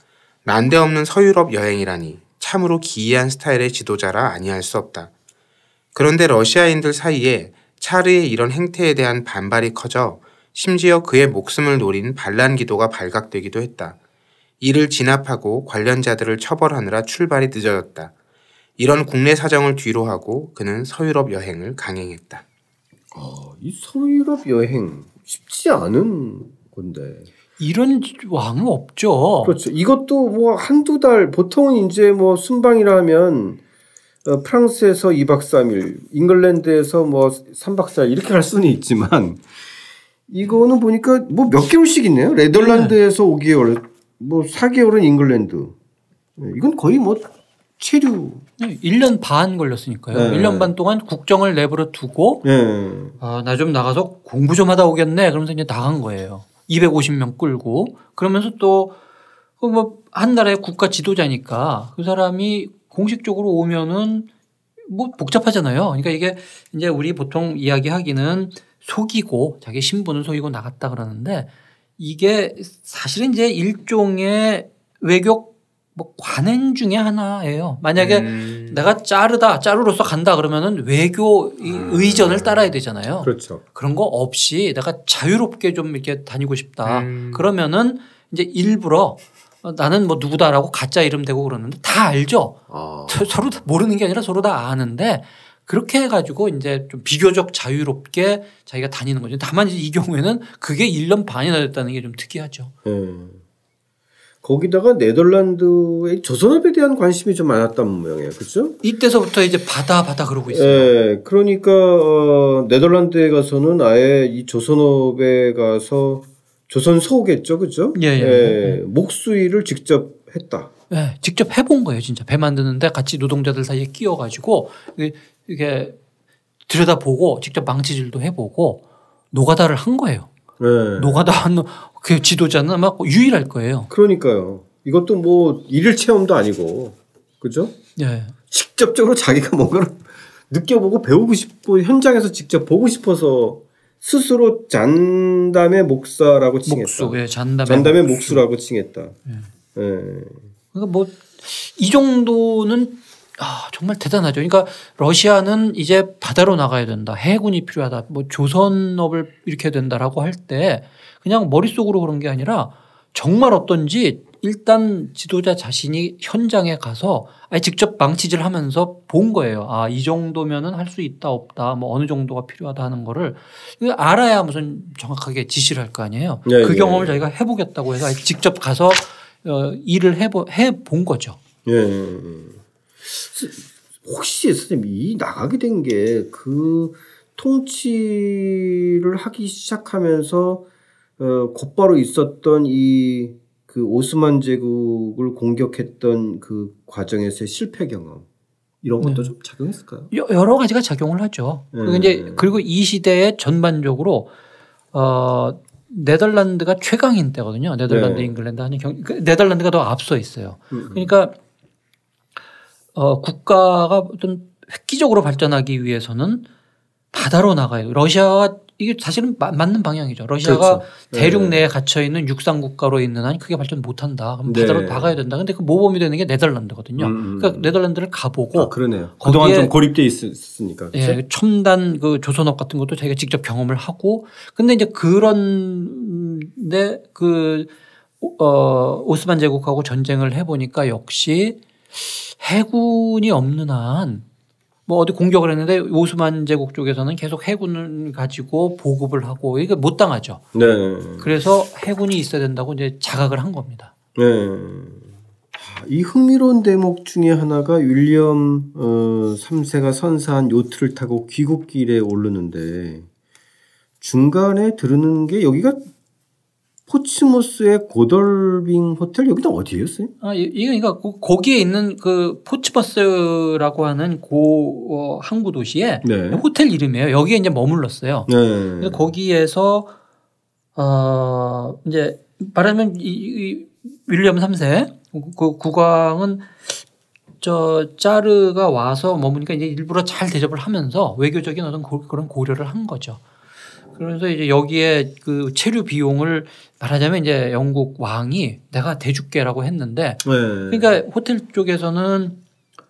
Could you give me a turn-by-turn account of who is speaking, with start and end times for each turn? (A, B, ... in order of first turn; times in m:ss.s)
0:00.4-0:05.1 A
0:05.9-0:14.0 A
0:14.6-0:18.1 A
0:18.8-0:22.4 A
0:23.1-0:27.3 B
0:27.6-0:29.6 C
0:29.4-0:33.6 B
0:34.2-0:39.4 B
0:40.3-0:45.8 B
0:42.6-0:43.0 C
0:46.4-0:48.4 B
0:48.6-0:52.4 C
0:50.1-0:50.7 B
0:52.4-0:53.2 B
0:53.2-0:59.0 C
0:59.6-1:04.3 C
1:04.8-1:42.7 C
1:18.0-1:18.8 A
1:23.2-1:23.6 B
1:26.8-1:27.5 A
1:32.7-1:33.6 B
1:42.8-1:43.4 B
1:44.4-1:48.8 B
1:48.8-1:50.9 C
1:50.5-2:00.7 B
1:57.9-1:58.8 C
2:00.9-2:06.0 C
2:06.7-2:10.3 C
2:10.6-2:11.3 B
2:11.0-2:13.9 C
2:13.9-2:17.7 B
2:18.0-2:18.3 C
2:18.5-2:29.2 B
2:26.6-2:28.4 C
2:29.7-2:30.4 B
2:30.7-3:01.4 C
2:56.4-2:57.2 B
3:01.6-3:10.6 B
3:11.2-3:18.2 B
3:18.8-3:20.1 B
3:19.0-3:19.3 C
3:20.1-3:24.3 C
3:21.7-3:22.5 B
3:24.9-3:31.3 C
3:27.9-3:28.3 B
3:30.7-3:31.1 B
3:32.9-3:36.4 C
3:37.1-3:49.7 C
3:40.4-3:41.7 B
3:44.4-3:45.2 B
3:47.0-3:47.7 B
3:48.5-3:51.2 B
3:50.9-4:04.2 C
4:04.9-4:10.4 C
4:10.5-4:11.3 B
4:11.2-4:13.9 C
4:14.2-4:23.1 B
4:24.0-4:25.8 B
4:26.9-4:30.1 B
4:30.2-4:39.9 C
4:36.0-4:36.4 B
4:38.3-4:39.1 B
4:40.8-4:46.8 C
4:47.4-4:53.2 C
4:53.9-5:02.4 C
5:00.2-5:01.0 B